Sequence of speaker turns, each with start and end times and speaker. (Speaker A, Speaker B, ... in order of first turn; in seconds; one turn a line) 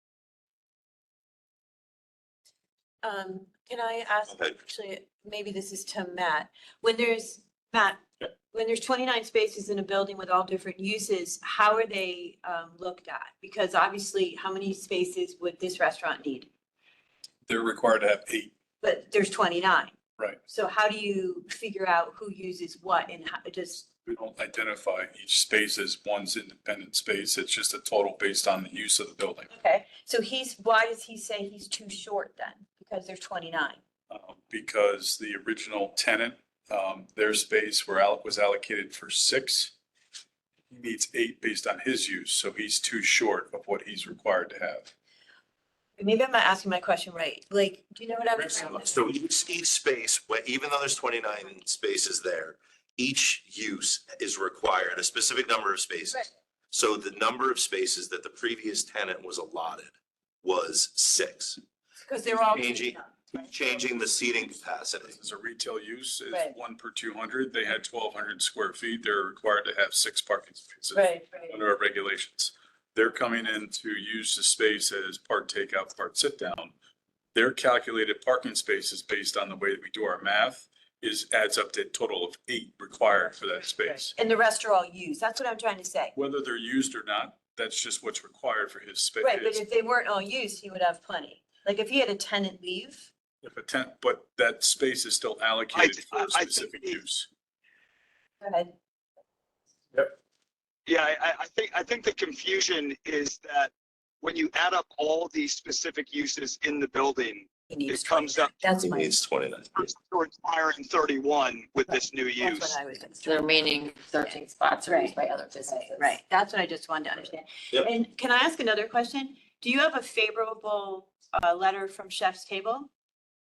Speaker A: 3.0-16.5
Speaker B: 4.3-4.6
Speaker C: 17.4-18.5
Speaker A: 18.8-19.9
Speaker A: 20.4-23.9
Speaker C: 24.1-29.5
Speaker A: 29.5-33.8
Speaker C: 34.1-39.7
Speaker C: 40.7-44.9
Speaker A: 46.0-48.9
Speaker C: 48.4-48.9
Speaker B: 48.8-61.6
Speaker A: 62.0-63.1
Speaker B: 62.3-65.2
Speaker C: 65.0-76.7
Speaker A: 70.9-71.5
Speaker C: 77.3-84.1
Speaker A: 84.2-86.1
Speaker C: 86.1-89.6
Speaker A: 89.2-93.1
Speaker C: 93.4-97.3
Speaker D: 95.7-97.0
Speaker A: 98.4-98.7
Speaker D: 100.9-108.5
Speaker A: 107.7-109.1
Speaker B: 108.8-109.9
Speaker D: 109.8-112.8
Speaker A: 111.9-113.6
Speaker E: 113.2-116.2
Speaker A: 114.2-122.9